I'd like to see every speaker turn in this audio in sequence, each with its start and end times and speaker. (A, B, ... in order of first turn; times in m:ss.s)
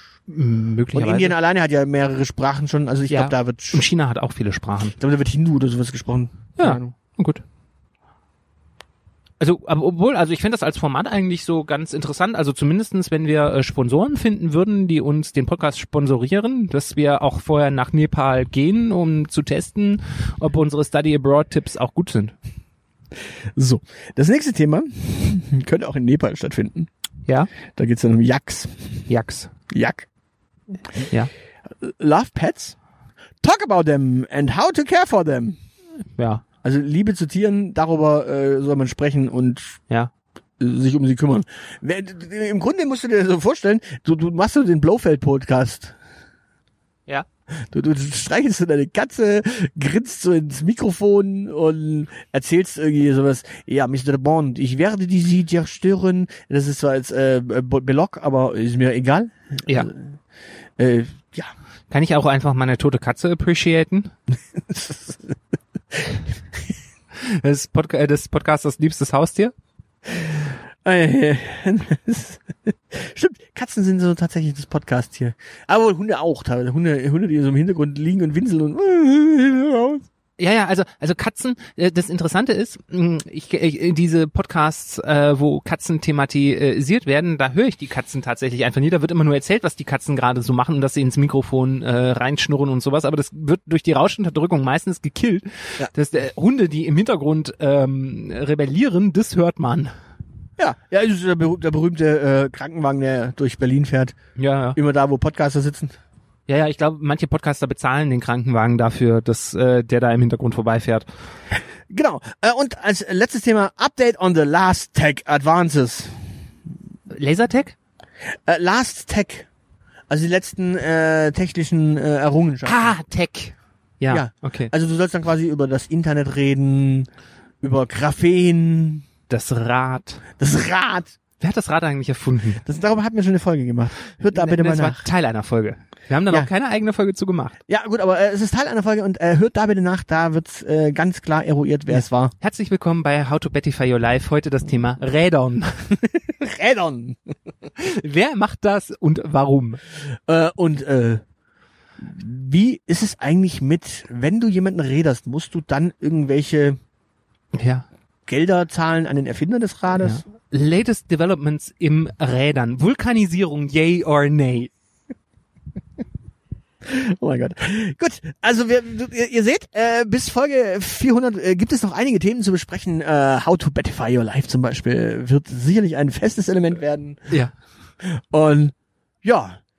0:00.3-0:01.4 A
0:00.9-0:03.8 B
0:03.1-0:05.0 A
0:05.0-0:06.9 B
0:06.6-0:07.4 A
0:09.4-0:22.3 A
0:23.6-0:26.9 B
0:27.7-0:29.0 B
0:29.1-0:29.5 A
0:29.7-0:30.0 B
0:31.8-0:32.8 B
0:33.4-0:35.6 B
0:36.2-0:36.4 A
0:36.6-0:39.8 B
0:40.6-0:45.9 B
0:47.7-1:00.0 B
1:00.8-1:01.5 B
1:01.9-1:04.1 A
1:04.7-1:05.3 B
1:07.1-1:09.5 A
1:10.8-1:20.0 B
1:20.4-1:39.9 A
1:40.6-1:44.2 B
1:44.4-1:44.8 A
1:44.7-1:45.9 B
1:46.5-1:51.1 A
1:51.9-1:56.3 B
1:57.1-1:57.8 A
1:58.5-1:59.5 B
2:00.1-2:02.9 B
2:02.6-2:04.7 A
2:04.1-2:07.1 B
2:07.6-2:09.0 B
2:09.3-2:10.2 A
2:10.4-2:11.1 B
2:11.4-2:12.6 A
2:12.6-2:15.1 B
2:14.3-2:17.5 A
2:17.7-2:22.3 B
2:22.4-2:25.9 A
2:26.1-2:27.2 B
2:27.8-2:29.8 A
2:30.3-2:31.2 B
2:32.0-2:36.8 B
2:37.5-2:37.8 A
2:38.3-2:40.2 B
2:40.0-2:44.7 A
2:46.8-2:57.3 B
2:58.0-2:59.6 B